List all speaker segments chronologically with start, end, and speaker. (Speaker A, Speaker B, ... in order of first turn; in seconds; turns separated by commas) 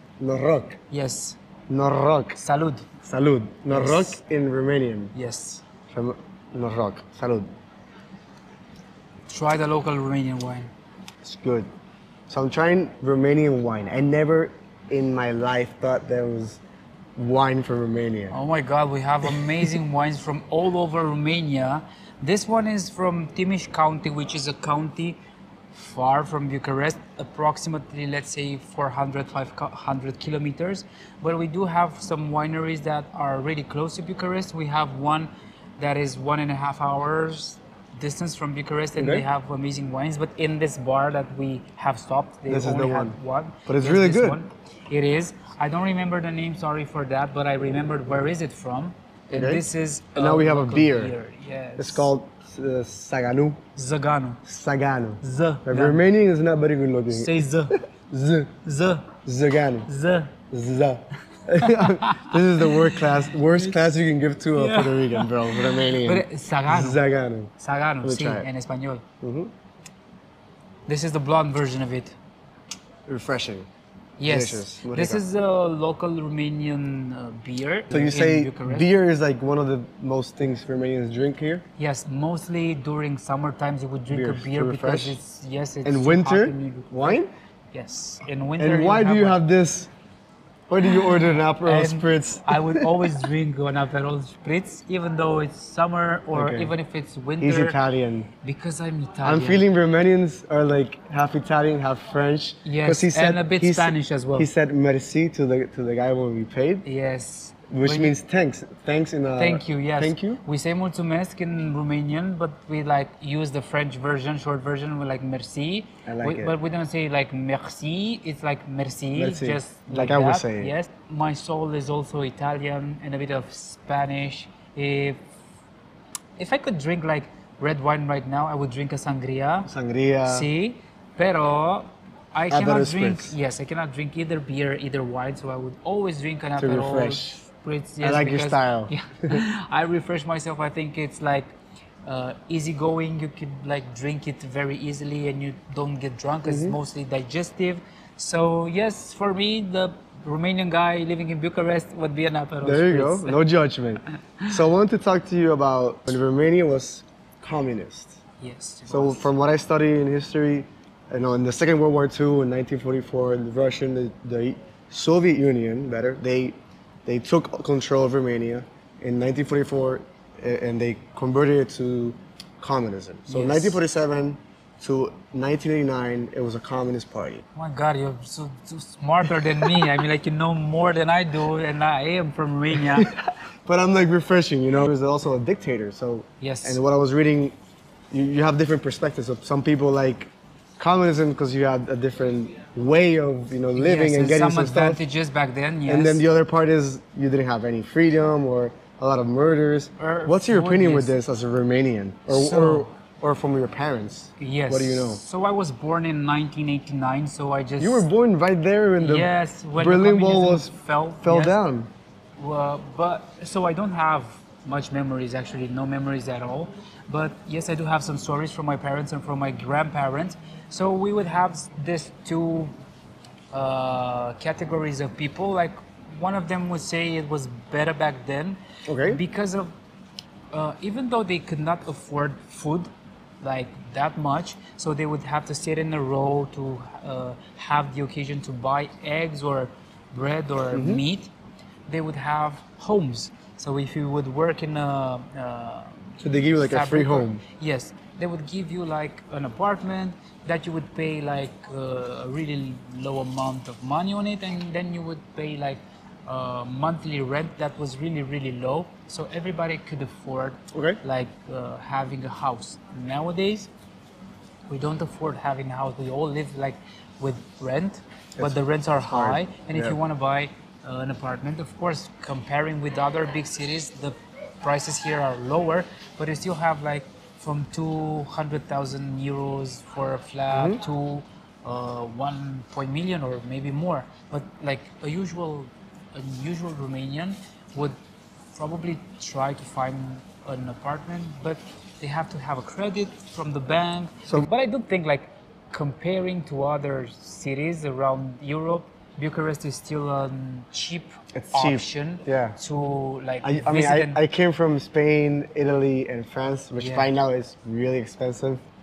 Speaker A: 0.2-0.8, Speaker B: 0.9-1.4, Speaker A: 1.7-2.4, Speaker B: 2.4-2.9, Speaker A: 3.0-5.1, Speaker B: 3.7-4.2, Speaker B: 5.1-5.6, Speaker A: 5.9-7.5, Speaker B: 9.3-10.7, Speaker A: 11.2-11.7, Speaker A: 12.3-16.6, Speaker A: 17.2-18.4, Speaker B: 18.3-25.2, Speaker B: 25.7-52.1, Speaker A: 39.0-39.2, Speaker A: 42.5-44.4, Speaker A: 49.3-49.6, Speaker A: 50.2-51.1, Speaker A: 51.8-53.6, Speaker B: 53.8-54.4, Speaker A: 54.5-58.5, Speaker B: 55.2-56.0, Speaker B: 57.1-57.8, Speaker B: 58.6-59.2, Speaker A: 59.2-59.9, Speaker B: 59.9-60.3, Speaker A: 60.5-67.5, Speaker B: 61.6-63.8, Speaker B: 64.6-67.0, Speaker B: 67.6-69.0, Speaker A: 68.0-68.5, Speaker A: 69.2-69.5, Speaker B: 70.9-72.2, Speaker A: 73.1-73.7, Speaker B: 74.2-78.9, Speaker A: 74.3-75.2, Speaker A: 77.9-81.6, Speaker B: 81.8-87.2, Speaker A: 84.1-85.2, Speaker A: 85.8-87.3, Speaker B: 87.7-89.4, Speaker A: 88.6-89.9, Speaker A: 90.7-93.2, Speaker B: 91.6-97.8, Speaker A: 96.3-96.7, Speaker A: 97.4-98.3, Speaker B: 98.4-99.7, Speaker A: 99.2-106.9, Speaker B: 102.7-104.5, Speaker B: 106.8-108.2, Speaker A: 107.7-110.4, Speaker B: 109.4-125.2, Speaker A: 116.1-116.5, Speaker A: 119.2-120.7, Speaker B: 126.4-129.7, Speaker A: 129.7-130.5, Speaker B: 130.2-141.5, Speaker A: 132.5-133.3, Speaker A: 136.6-137.4, Speaker A: 138.0-139.4, Speaker B: 142.1-153.4, Speaker A: 146.4-146.8, Speaker A: 152.6-158.2, Speaker B: 158.4-159.3, Speaker A: 158.9-177.4, Speaker B: 173.3-173.8, Speaker B: 177.6-183.1, Speaker A: 182.8-187.6, Speaker B: 186.4-186.8, Speaker A: 188.1-195.0, Speaker B: 193.8-196.2, Speaker A: 195.9-205.2, Speaker B: 200.0-201.1, Speaker B: 202.3-202.9, Speaker B: 204.4-208.1, Speaker A: 207.8-210.7, Speaker B: 209.0-211.6, Speaker A: 211.2-211.9, Speaker B: 212.4-222.7, Speaker B: 223.5-229.7, Speaker A: 228.9-229.2, Speaker B: 230.5-232.9, Speaker B: 233.4-241.3, Speaker A: 240.7-241.0, Speaker B: 241.9-263.7, Speaker A: 246.2-247.4, Speaker A: 260.7-261.0, Speaker B: 264.7-288.0, Speaker A: 268.4-270.0, Speaker A: 280.5-280.8, Speaker B: 288.5-304.2, Speaker A: 301.4-302.6, Speaker A: 303.4-308.6, Speaker B: 306.8-307.1